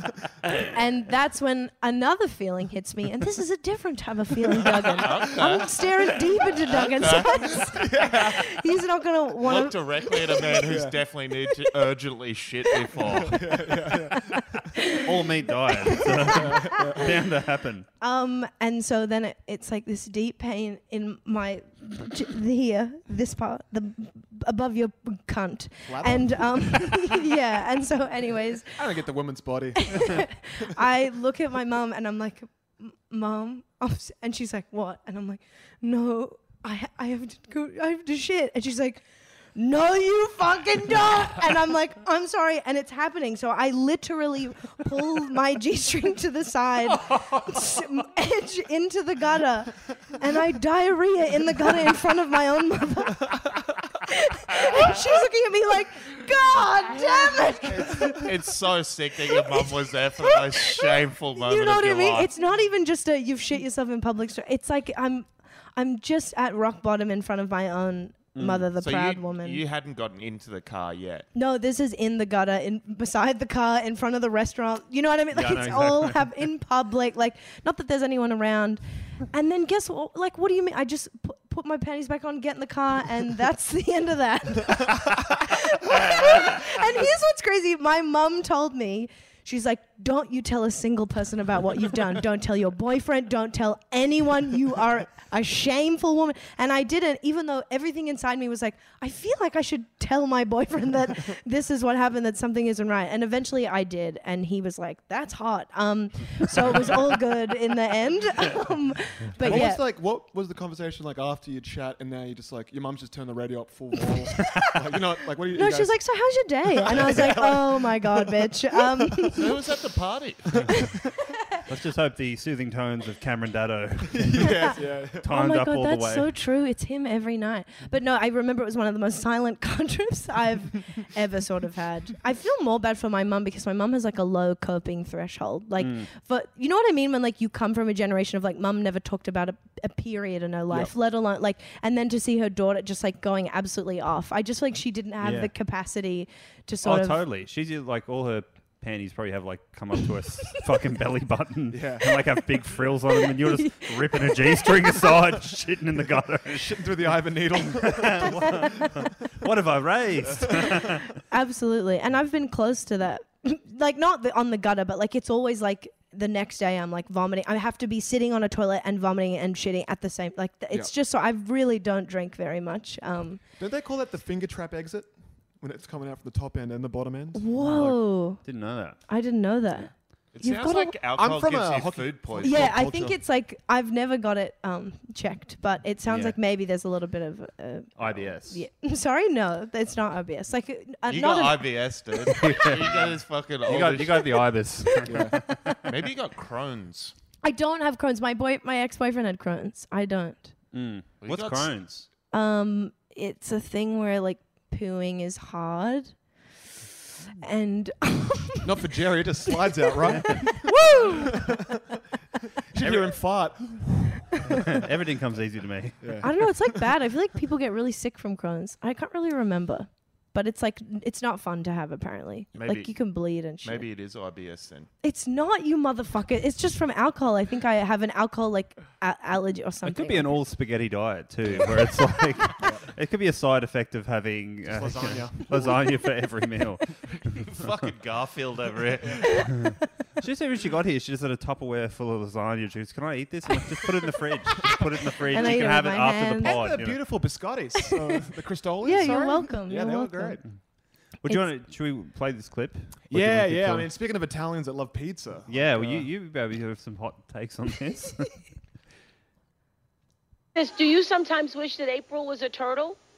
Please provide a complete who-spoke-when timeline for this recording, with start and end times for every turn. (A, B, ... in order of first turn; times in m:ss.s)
0:00.6-0:09.8 A
0:05.0-0:05.8 B
0:06.5-0:08.4 B
0:07.6-0:08.3 C
0:09.4-0:13.5 B
0:10.5-0:11.0 C
0:13.0-0:14.8 C
0:14.9-0:17.9 D
0:16.4-0:17.1 C
0:18.0-0:28.8 A
0:25.8-0:27.2 C
0:28.7-0:30.7 C
0:29.8-0:39.0 A
0:39.5-0:53.4 A
0:47.1-0:47.6 D
0:54.0-0:58.3 A
0:58.0-1:02.3 B
0:59.4-1:09.6 A
1:08.3-1:08.7 D
1:08.8-1:11.3 B
1:11.3-1:49.8 A
1:15.3-1:16.3 D
1:49.4-1:56.0 C
1:55.5-1:59.4 A
1:56.8-1:59.3 C
1:59.4-2:00.5 B
2:00.5-2:00.9 C
2:01.6-2:06.3 D
2:04.1-2:05.3 C
2:05.2-2:27.2 A
2:15.8-2:16.1 D
2:25.2-2:25.5 D
2:26.8-2:41.0 D
2:31.7-2:32.2 C
2:36.5-2:39.0 C
2:40.2-2:40.8 C
2:41.2-2:53.4 A
2:53.6-2:58.0 C
2:57.3-2:59.9 A
2:57.6-2:59.0 D
3:00.3-3:02.8 B
3:00.4-3:00.9 A
3:00.4-3:03.2 C
3:02.4-3:11.7 A
3:06.0-3:06.4 D
3:08.0-3:08.6 D
3:11.1-3:14.4 B
3:12.3-3:13.1 D
3:13.6-3:15.9 D
3:15.0-3:15.4 C
3:15.8-3:17.1 B
3:17.4-3:20.5 A
3:20.7-3:22.1 D
3:21.2-3:21.7 B
3:22.3-3:26.2 A
3:27.4-3:28.6 A
3:28.6-3:31.8 C
3:29.7-3:31.3 A
3:32.7-3:34.6 C
3:34.5-3:36.5 D
3:36.0-3:36.5 C
3:36.2-3:43.8 A
3:42.5-3:44.9 B
3:45.0-3:50.3 A
3:49.8-3:57.7 D
3:54.6-3:56.0 C
3:57.5-3:59.4 B
3:59.5-4:07.2 D
4:05.3-4:06.6 A
4:06.4-4:10.4 C
4:08.8-4:10.4 A
4:11.2-4:13.9 D
4:13.1-4:16.1 C
4:15.5-4:18.4 D
4:20.5-4:23.0 E